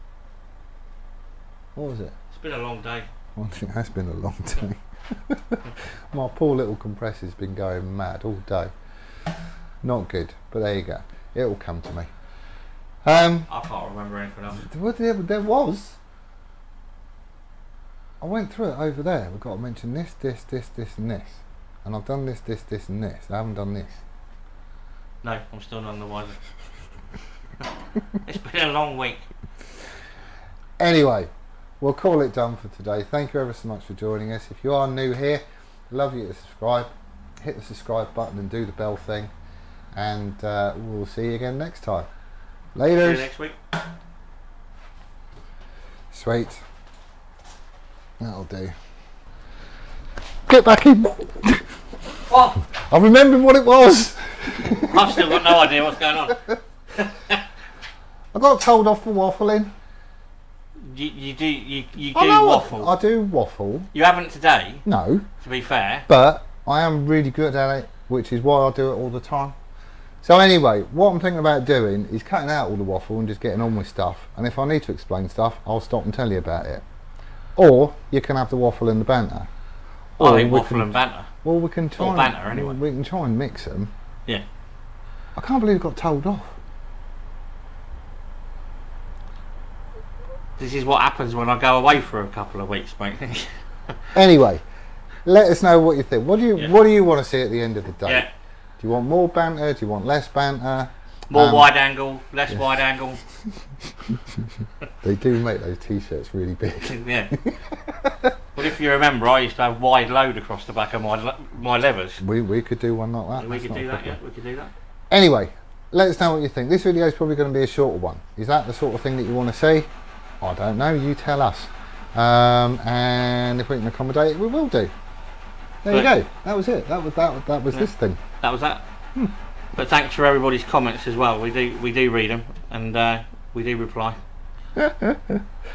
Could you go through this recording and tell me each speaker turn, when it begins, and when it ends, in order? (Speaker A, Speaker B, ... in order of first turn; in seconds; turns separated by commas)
Speaker A: 1.7-2.1, Speaker B: 2.3-3.1, Speaker A: 3.4-8.7, Speaker A: 9.8-12.1, Speaker A: 13.0-13.5, Speaker B: 13.5-14.7, Speaker A: 14.6-16.0, Speaker A: 18.2-24.0, Speaker B: 25.2-26.4, Speaker B: 28.1-29.3, Speaker A: 30.8-39.3, Speaker A: 39.9-42.1, Speaker A: 42.7-43.3, Speaker B: 43.0-43.5, Speaker A: 46.1-46.6, Speaker A: 48.2-48.7, Speaker A: 50.5-55.7, Speaker B: 52.3-52.6, Speaker B: 54.6-57.4, Speaker A: 56.3-56.5, Speaker A: 58.3-59.7, Speaker B: 60.8-62.9, Speaker A: 62.1-63.9, Speaker B: 63.9-64.8, Speaker A: 64.8-65.3, Speaker B: 65.4-66.1, Speaker A: 66.1-69.5, Speaker A: 70.2-76.8, Speaker A: 77.5-79.5, Speaker A: 80.2-80.9, Speaker B: 80.2-81.3, Speaker A: 81.4-83.9, Speaker B: 82.0-82.8, Speaker A: 85.3-86.6, Speaker B: 90.6-94.1, Speaker A: 94.1-94.6, Speaker A: 95.2-98.3, Speaker B: 98.0-98.3, Speaker A: 98.8-101.7, Speaker B: 101.3-103.2, Speaker A: 103.5-104.5, Speaker A: 105.0-108.4, Speaker B: 106.8-107.3, Speaker B: 108.5-112.2, Speaker A: 112.2-114.2, Speaker B: 113.3-114.7, Speaker A: 115.1-119.9, Speaker A: 120.4-124.9, Speaker A: 125.8-128.2, Speaker B: 127.7-128.8, Speaker B: 129.7-134.2, Speaker A: 134.8-135.4